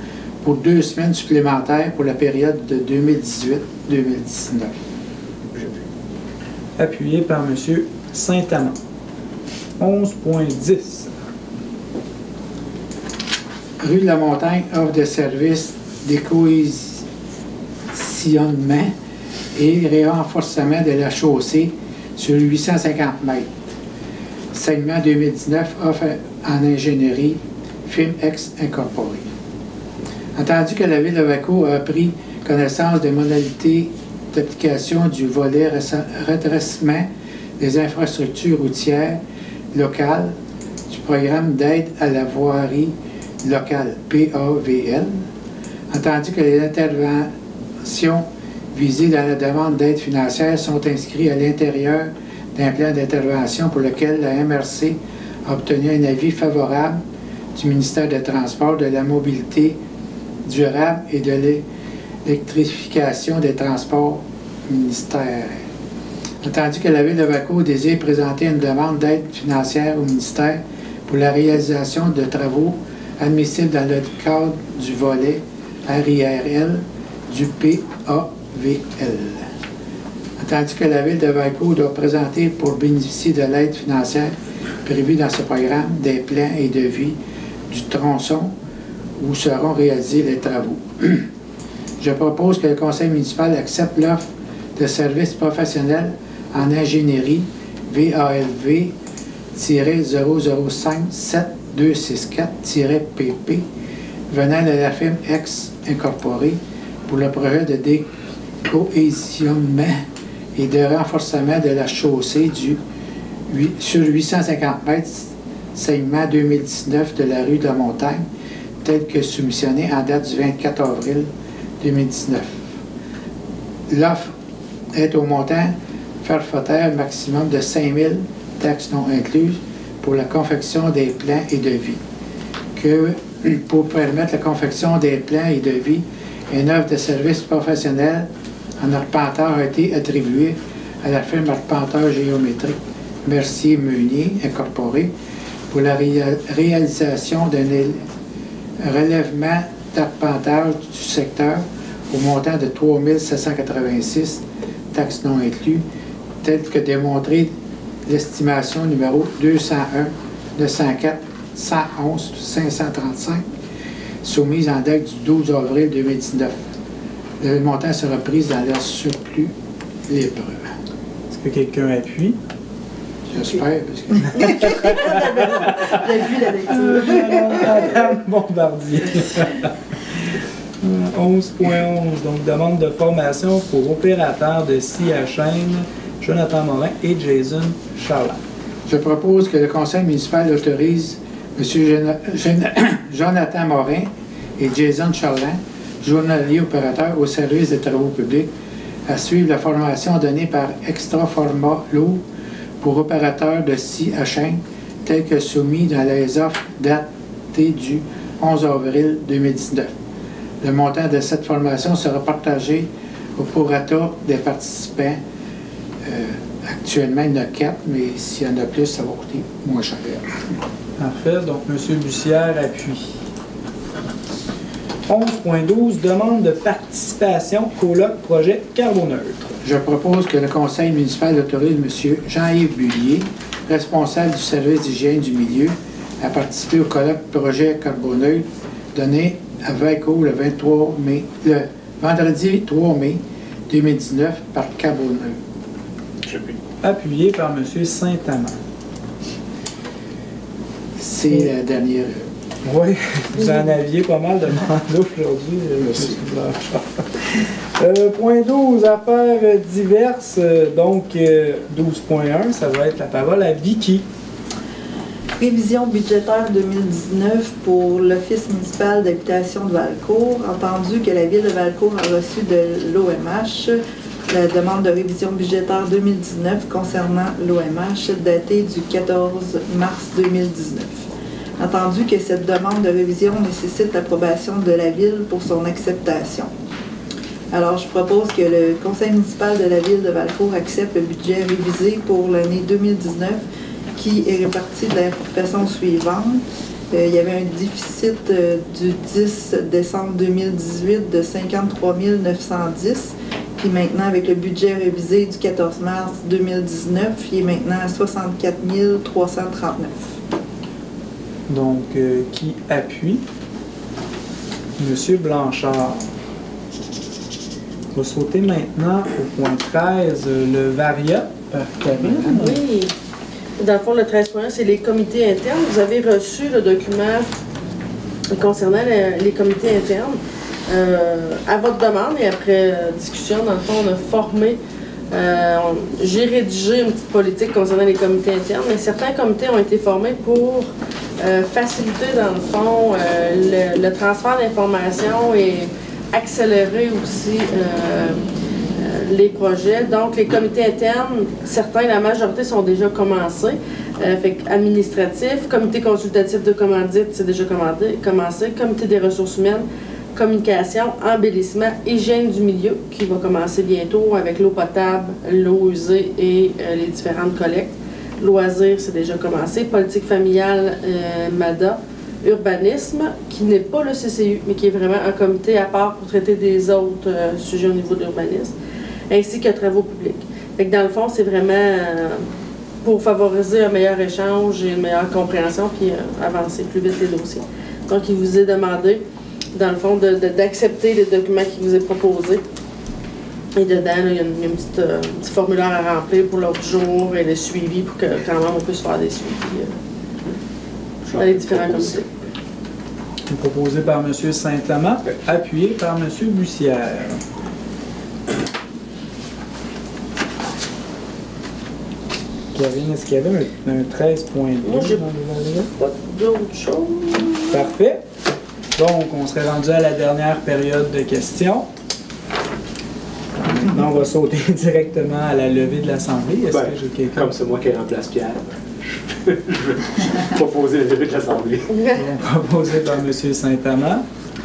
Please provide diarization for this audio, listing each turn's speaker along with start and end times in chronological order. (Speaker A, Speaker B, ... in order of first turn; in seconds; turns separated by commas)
Speaker A: 0.4-4.7, Speaker B: 6.8-8.8, Speaker B: 9.8-11.1, Speaker A: 13.8-17.0, Speaker A: 17.9-18.9, Speaker A: 19.5-23.7, Speaker A: 24.5-29.3, Speaker A: 30.4-37.1, Speaker A: 37.6-39.2, Speaker A: 39.7-40.3, Speaker A: 40.9-45.2, Speaker A: 45.9-47.3, Speaker A: 47.8-57.0, Speaker A: 57.5-59.8, Speaker A: 60.4-61.6, Speaker A: 62.2-65.6, Speaker A: 66.4-79.5, Speaker A: 80.4-87.2, Speaker A: 87.7-88.5, Speaker A: 89.2-91.2, Speaker A: 92.0-98.9, Speaker A: 99.5-103.6, Speaker A: 104.3-108.0, Speaker A: 108.6-112.8, Speaker A: 113.5-118.2, Speaker A: 118.8-121.3, Speaker A: 121.8-122.8, Speaker A: 123.9-124.3, Speaker A: 124.9-132.0, Speaker A: 132.7-138.2, Speaker A: 138.8-145.1, Speaker A: 145.7-148.0, Speaker A: 148.8-155.8, Speaker A: 156.4-157.5, Speaker A: 158.1-163.4, Speaker A: 164.2-166.6, Speaker A: 167.4-169.5, Speaker A: 170.1-170.7, Speaker B: 171.3-172.4, Speaker A: 173.3-174.7, Speaker C: 174.3-177.8, Speaker B: 174.4-175.8, Speaker B: 176.7-179.7, Speaker B: 180.8-188.4, Speaker A: 188.9-198.5, Speaker A: 199.1-202.2, Speaker A: 202.8-209.9, Speaker A: 210.6-215.2, Speaker A: 216.0-220.2, Speaker B: 221.0-223.1, Speaker B: 225.1-229.5, Speaker A: 229.6-245.4, Speaker D: 246.2-246.6, Speaker B: 246.8-248.6, Speaker A: 251.0-252.2, Speaker B: 252.6-264.0, Speaker C: 265.4-281.1, Speaker C: 281.6-286.5, Speaker C: 287.5-293.4, Speaker C: 293.9-310.2, Speaker B: 311.5-313.2, Speaker B: 314.8-316.1, Speaker B: 317.9-322.6, Speaker E: 322.2-322.9, Speaker E: 323.6-327.3, Speaker E: 328.3-334.6, Speaker E: 335.1-340.7, Speaker E: 341.2-348.2, Speaker E: 348.8-359.6, Speaker E: 360.1-378.5, Speaker E: 379.1-382.2, Speaker E: 382.8-389.0, Speaker E: 389.5-392.4, Speaker E: 393.6-399.7, Speaker D: 401.1-402.0, Speaker E: 401.1-402.0, Speaker B: 403.3-407.2, Speaker B: 412.5-415.7, Speaker E: 414.6-415.0, Speaker E: 415.8-417.6, Speaker B: 417.5-418.0, Speaker B: 418.8-421.6, Speaker B: 423.4-427.3, Speaker D: 426.5-431.7, Speaker E: 431.7-432.0, Speaker B: 431.9-434.0